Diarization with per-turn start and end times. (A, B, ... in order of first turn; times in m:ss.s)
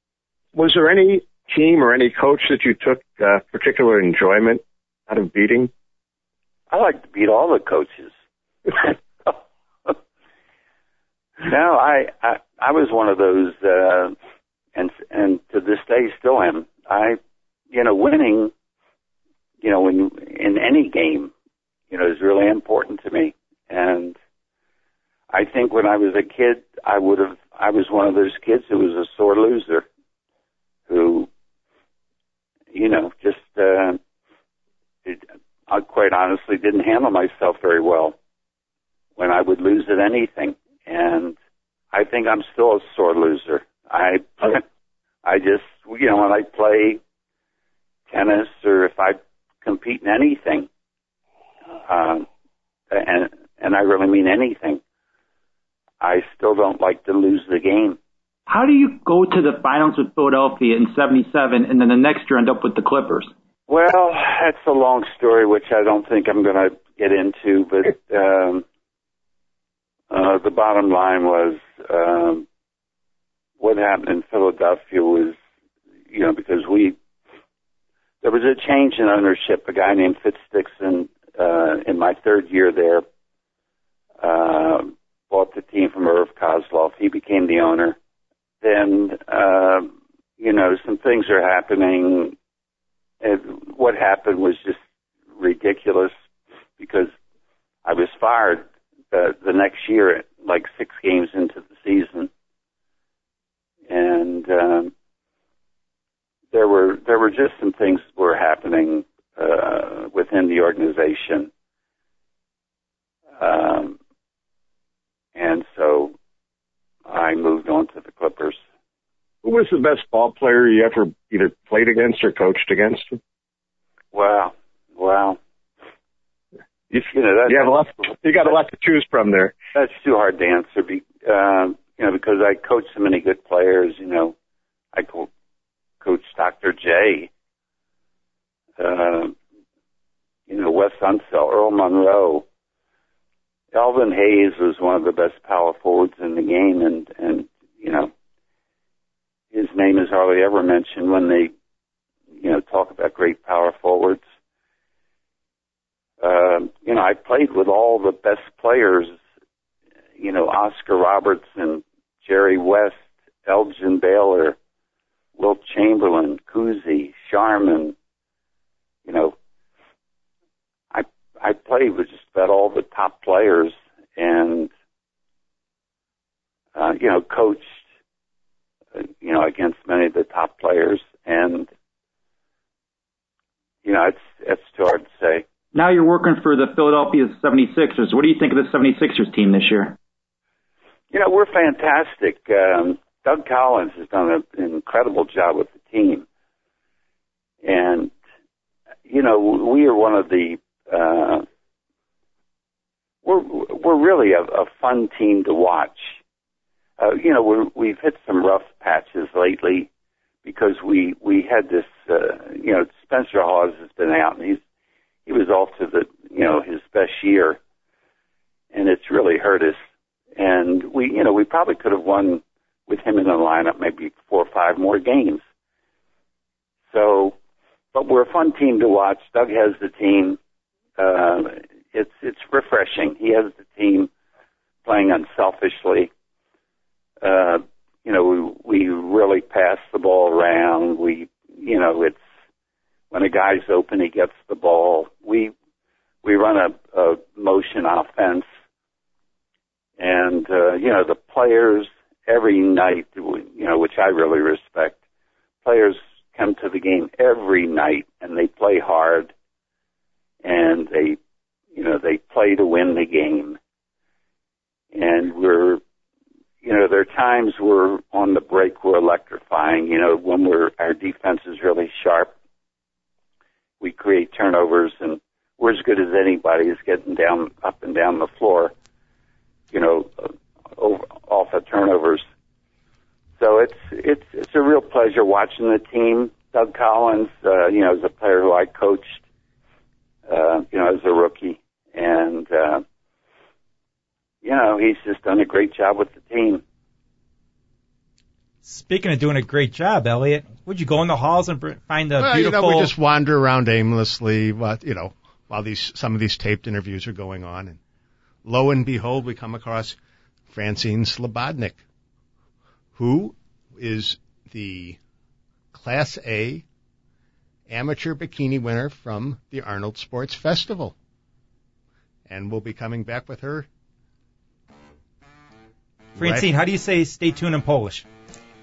0:00.5-0:05.7 A
0:06.7-0:08.1 B
0:08.7-0:09.9 B
0:11.4-0:14.1 B
0:14.8-0:17.2 B
0:17.7-0:18.5 B
0:19.6-0:21.3 B
0:21.9-0:24.1 B
0:25.3-0:29.8 B
0:30.9-0:31.3 B
0:32.7-0:34.0 B
0:35.0-0:38.2 B
0:39.2-0:41.3 B
0:41.9-0:44.6 B
0:45.2-0:47.0 B
0:48.1-0:50.7 B
0:51.9-0:52.2 B
0:52.9-0:54.8 B
0:56.0-0:58.0 B
0:58.5-1:03.3 C
1:03.7-1:08.6 B
1:10.1-1:12.4 B
1:13.6-1:15.3 B
1:16.1-1:17.0 B
1:18.2-1:23.0 B
1:24.2-1:28.0 B
1:28.6-1:32.3 B
1:33.2-1:34.8 B
1:35.4-1:36.1 B
1:36.8-1:37.1 B
1:37.8-1:42.3 B
1:43.9-1:44.9 B
1:46.5-1:51.5 B
1:53.4-1:54.0 B
1:55.3-1:56.1 B
1:57.1-1:58.6 B
1:59.4-2:03.2 A
2:04.1-2:05.4 B
2:06.9-2:09.5 A
2:07.1-2:08.1 B
2:09.7-2:14.3 B
2:14.9-2:15.3 B
2:16.0-2:17.3 B
2:18.8-2:19.3 B
2:20.5-2:22.4 B
2:23.7-2:28.1 B
2:29.5-2:31.5 B
2:32.4-2:34.2 B
2:36.2-2:39.2 B
2:40.2-2:44.6 B
2:45.4-2:47.9 B
2:49.0-2:49.3 B
2:50.9-2:54.7 B
2:56.7-2:57.7 B
2:59.0-3:01.7 B
3:03.8-3:05.4 B
3:05.7-3:10.0 C
3:11.1-3:16.2 B
3:17.6-3:18.1 B
3:19.1-3:21.4 B
3:23.2-3:26.2 B
3:27.0-3:29.9 B
3:30.4-3:34.6 B
3:35.2-3:37.6 B
3:38.7-3:39.8 B
3:40.4-3:45.4 B
3:46.9-3:47.4 B
3:47.9-3:50.4 B
3:51.0-3:54.1 B
3:54.8-3:56.1 B
3:57.2-4:02.2 B
4:03.1-4:05.5 B
4:06.2-4:08.4 B
4:10.0-4:15.0 B
4:15.6-4:19.3 B
4:20.4-4:21.2 B
4:21.7-4:23.6 B
4:24.9-4:25.8 B
4:26.6-4:32.3 B
4:33.8-4:38.7 B
4:39.7-4:42.2 B
4:43.4-4:49.2 B
4:50.3-4:52.8 B
4:54.4-4:56.6 B
4:58.6-5:02.9 D
5:02.2-5:07.8 E
5:08.4-5:10.0 E
5:10.5-5:11.8 E
5:12.9-5:15.0 E
5:15.7-5:16.6 E
5:17.7-5:20.9 E
5:22.3-5:23.7 E
5:26.2-5:26.5 E
5:26.2-5:28.0 D